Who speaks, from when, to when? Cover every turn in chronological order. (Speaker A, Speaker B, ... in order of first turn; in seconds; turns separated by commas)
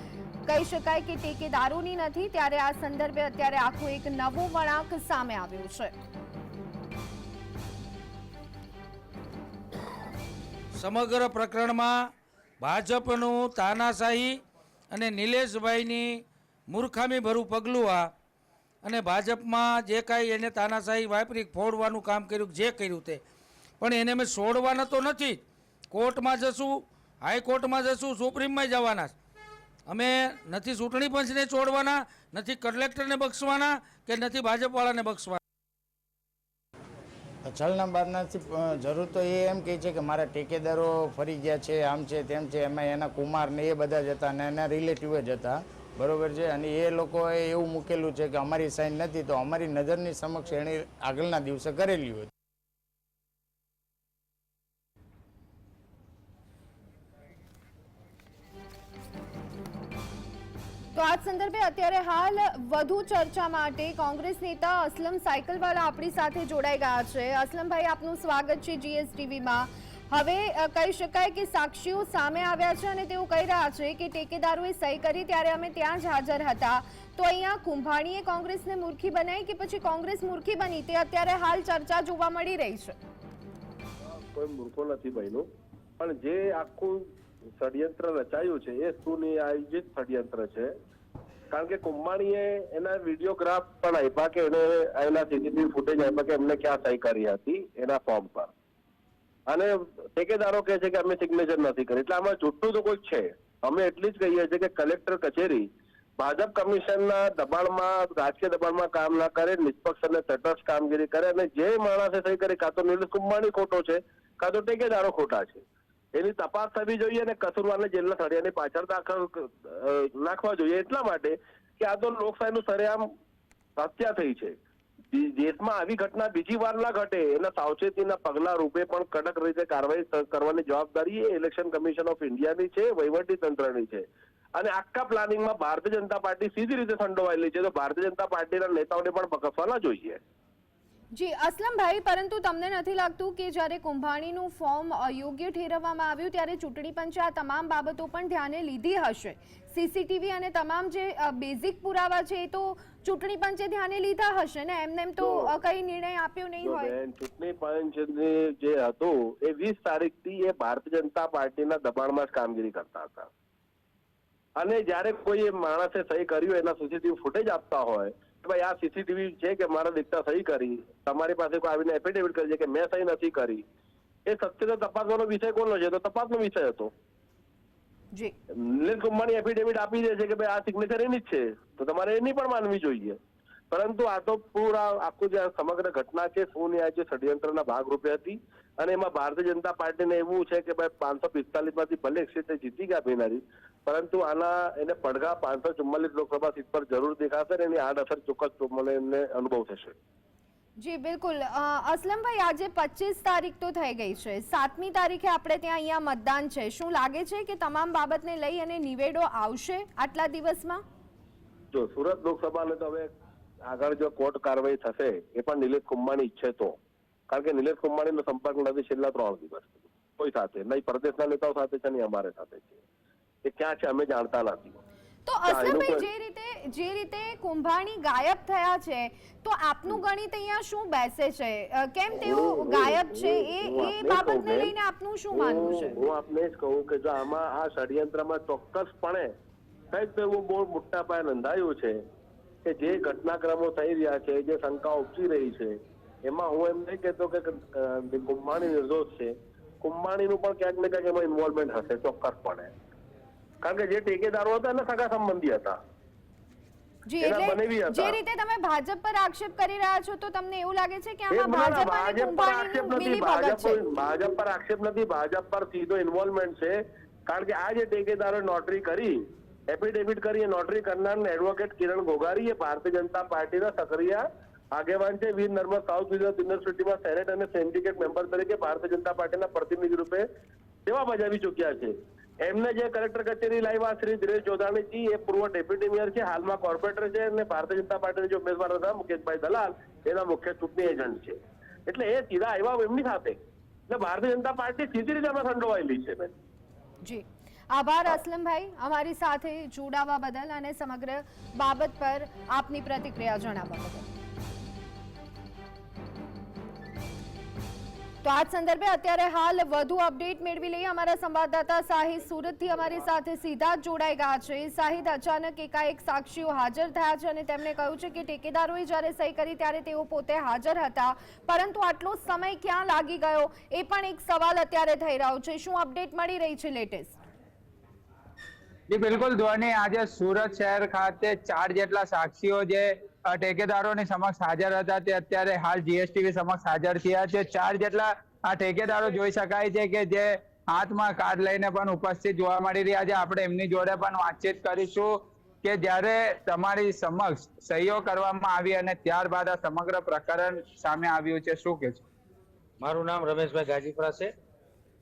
Speaker A: 0.5-5.9, Speaker B: 10.8-11.9, Speaker B: 12.6-14.4, Speaker B: 14.9-18.1, Speaker B: 18.8-23.2, Speaker B: 23.8-29.1, Speaker B: 29.9-35.4, Speaker C: 37.4-52.3, Speaker A: 61.0-83.0, Speaker D: 84.3-85.5, Speaker D: 86.0-87.0, Speaker D: 87.6-90.7, Speaker D: 91.5-98.5, Speaker D: 99.5-105.6, Speaker D: 106.2-115.6, Speaker D: 116.2-123.0, Speaker D: 123.8-124.6, Speaker D: 125.1-134.0, Speaker D: 134.6-140.2, Speaker A: 141.1-156.9, Speaker D: 155.2-155.5, Speaker D: 156.6-163.3, Speaker D: 164.6-173.6, Speaker D: 174.3-176.9, Speaker D: 178.8-183.2, Speaker D: 183.7-199.9, Speaker A: 200.8-210.8, Speaker D: 211.7-213.1, Speaker D: 213.7-216.8, Speaker D: 217.3-222.8, Speaker D: 223.4-224.8, Speaker A: 225.3-236.0, Speaker D: 225.5-226.1, Speaker D: 232.2-234.7, Speaker D: 235.3-239.3, Speaker D: 239.9-241.9, Speaker D: 242.7-245.7, Speaker D: 246.3-249.3, Speaker D: 249.8-252.7, Speaker D: 253.6-255.8, Speaker A: 257.1-263.8, Speaker D: 257.2-258.2, Speaker D: 261.3-266.7, Speaker D: 267.3-269.1, Speaker D: 269.7-274.2, Speaker D: 274.8-280.2, Speaker D: 280.9-281.9, Speaker D: 282.5-293.4, Speaker D: 293.9-296.3, Speaker A: 297.0-304.1, Speaker A: 308.2-327.2, Speaker E: 328.9-345.1, Speaker E: 345.6-352.0, Speaker B: 352.8-354.3